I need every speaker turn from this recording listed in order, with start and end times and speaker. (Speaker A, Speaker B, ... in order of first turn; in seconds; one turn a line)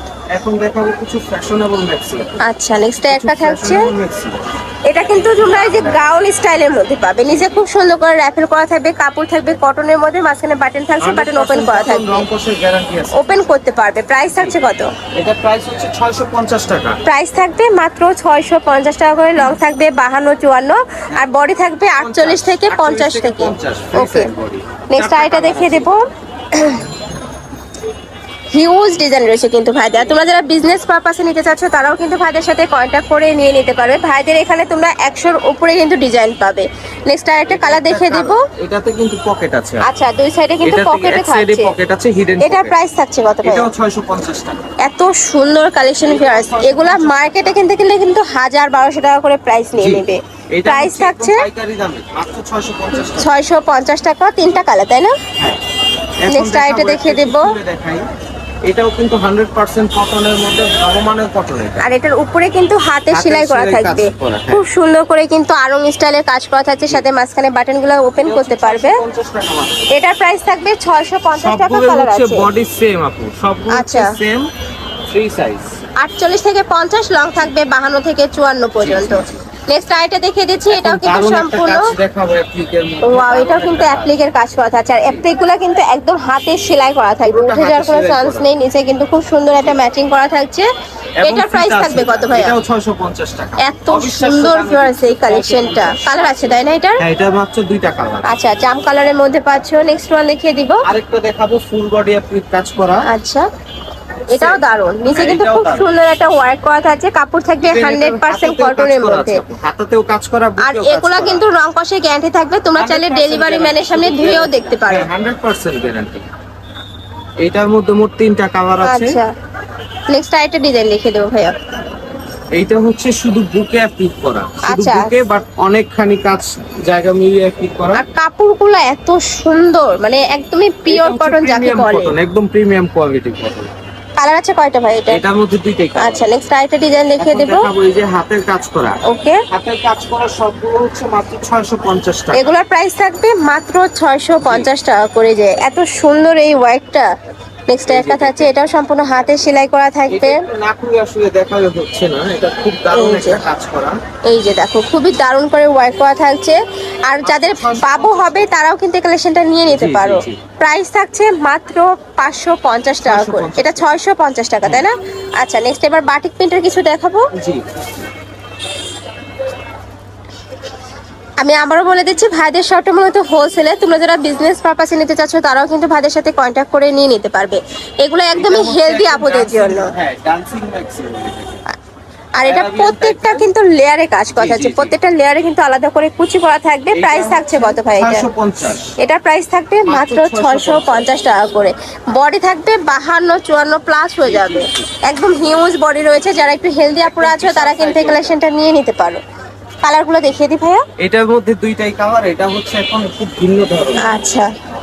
Speaker A: 0.3-2.4
Speaker B: 2.4-3.9
Speaker A: 3.0-4.5
Speaker B: 4.9-12.2
Speaker A: 5.1-6.0
Speaker A: 7.2-7.6
Speaker A: 11.0-13.4
Speaker B: 13.1-14.9
Speaker A: 14.2-14.6
Speaker A: 15.1-17.0
Speaker B: 17.1-24.3
Speaker A: 21.9-25.9
Speaker B: 24.9-26.9
Speaker B: 28.5-38.4
Speaker A: 37.5-39.8
Speaker B: 39.8-41.7
Speaker A: 40.6-42.8
Speaker B: 42.4-43.7
Speaker A: 43.4-44.6
Speaker B: 44.8-51.5
Speaker A: 46.0-47.6
Speaker A: 49.7-53.3
Speaker B: 53.1-55.2
Speaker A: 56.2-58.0
Speaker B: 56.3-57.5
Speaker A: 58.6-61.9
Speaker B: 61.8-69.0
Speaker A: 63.1-64.6
Speaker A: 68.2-69.9
Speaker B: 69.9-72.5
Speaker A: 71.3-74.5
Speaker B: 73.7-74.1
Speaker A: 75.1-75.7
Speaker B: 76.0-81.9
Speaker A: 78.8-79.4
Speaker A: 80.7-84.2
Speaker B: 83.0-90.7
Speaker A: 87.2-88.5
Speaker A: 91.2-98.3
Speaker B: 91.2-92.5
Speaker B: 93.6-97.0
Speaker B: 98.2-100.8
Speaker A: 100.8-103.0
Speaker B: 103.0-103.5
Speaker B: 104.3-109.4
Speaker A: 104.3-105.9
Speaker A: 107.6-111.4
Speaker B: 110.6-115.1
Speaker A: 112.7-116.2
Speaker A: 117.4-119.2
Speaker B: 118.8-119.3
Speaker B: 120.1-121.5
Speaker A: 122.5-128.0
Speaker B: 124.7-125.2
Speaker B: 127.9-132.1
Speaker A: 130.9-133.7
Speaker B: 134.2-135.2
Speaker A: 135.1-136.3
Speaker B: 136.0-137.7
Speaker A: 137.2-142.5
Speaker B: 139.0-139.4
Speaker B: 142.3-147.1
Speaker A: 144.4-144.7
Speaker B: 147.7-150.4
Speaker A: 147.9-148.5
Speaker A: 150.1-154.0
Speaker B: 152.9-153.4
Speaker B: 154.2-167.2
Speaker A: 157.2-158.5
Speaker A: 159.7-160.4
Speaker A: 163.0-164.0
Speaker A: 167.3-167.8
Speaker B: 171.4-179.9
Speaker A: 178.3-181.6
Speaker B: 182.3-188.2
Speaker A: 182.4-183.5
Speaker A: 184.3-184.9
Speaker A: 186.9-188.9
Speaker B: 189.0-199.2
Speaker A: 189.8-191.1
Speaker A: 194.2-194.9
Speaker A: 197.0-198.4
Speaker B: 199.8-200.8
Speaker A: 201.0-204.1
Speaker B: 204.0-204.5